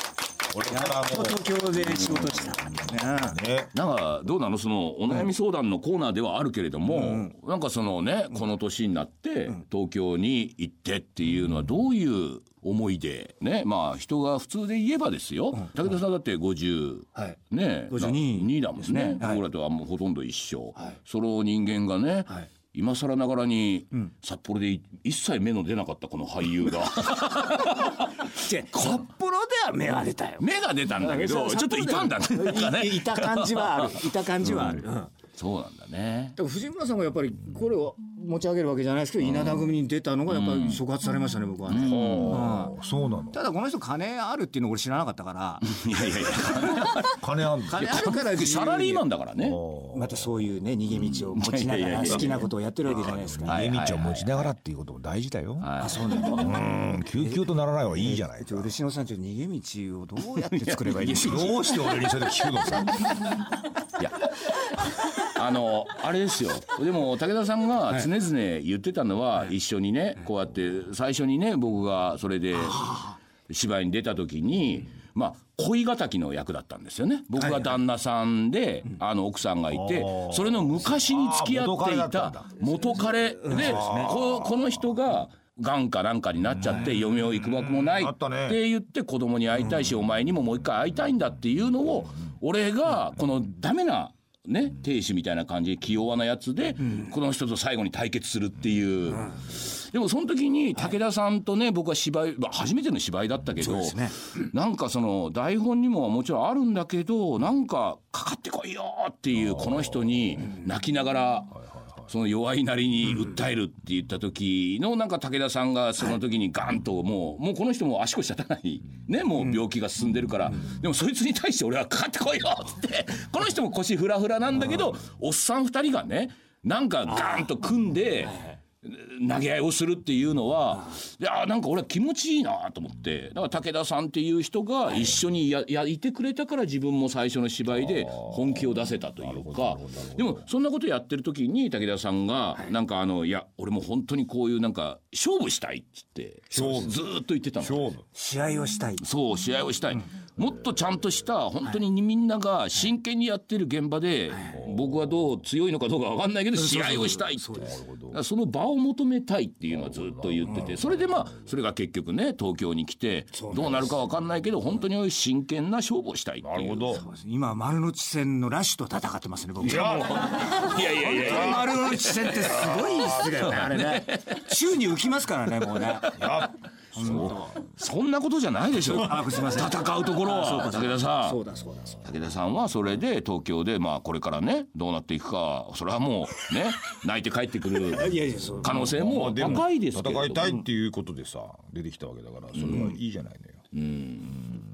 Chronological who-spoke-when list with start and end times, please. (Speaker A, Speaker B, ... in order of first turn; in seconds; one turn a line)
Speaker A: 0.5-1.4
Speaker B: 0.7-3.4
Speaker C: 1.8-2.3
Speaker A: 3.1-3.7
Speaker C: 3.7-28.2
Speaker B: 6.9-7.3
Speaker B: 17.1-19.4
Speaker B: 28.3-30.4
Speaker C: 30.4-34.8
Speaker B: 31.0-35.1
Speaker C: 35.4-36.4
Speaker B: 36.4-42.8
Speaker C: 39.2-39.7
Speaker C: 40.3-40.8
Speaker C: 41.7-42.6
Speaker A: 41.8-43.4
Speaker B: 43.3-47.0
Speaker C: 45.7-47.2
Speaker A: 47.1-48.0
Speaker B: 47.7-49.0
Speaker C: 47.7-49.6
Speaker A: 49.4-50.3
Speaker B: 49.9-53.6
Speaker C: 50.9-54.5
Speaker A: 52.0-55.7
Speaker C: 55.6-56.0
Speaker B: 55.8-57.4
Speaker A: 56.3-58.7
Speaker B: 58.0-62.0
Speaker C: 60.4-62.1
Speaker A: 61.2-63.0
Speaker C: 64.8-147.9
Speaker B: 72.6-73.1
Speaker B: 77.3-77.7
Speaker A: 79.7-82.6
Speaker B: 83.4-84.1
Speaker A: 83.5-84.6
Speaker A: 87.9-88.6
Speaker B: 96.8-97.1
Speaker B: 99.1-99.4
Speaker B: 103.6-104.1
Speaker B: 127.1-127.5
Speaker A: 139.2-140.4
Speaker A: 146.5-147.0
Speaker B: 146.6-146.9
Speaker A: 147.6-148.0
Speaker B: 148.1-149.0
Speaker C: 149.0-167.0
Speaker B: 154.3-154.6
Speaker B: 156.6-157.8
Speaker A: 157.7-158.2
Speaker A: 160.3-160.9
Speaker B: 163.3-163.9
Speaker A: 166.4-167.0
Speaker B: 166.9-177.6
Speaker A: 169.6-170.2
Speaker C: 169.6-174.6
Speaker C: 175.8-176.4
Speaker A: 176.2-177.4
Speaker C: 177.0-181.4
Speaker B: 178.7-182.0
Speaker C: 182.0-190.6
Speaker B: 187.9-189.6
Speaker A: 188.9-193.6
Speaker C: 192.5-192.9
Speaker B: 192.7-192.9
Speaker C: 193.7-194.5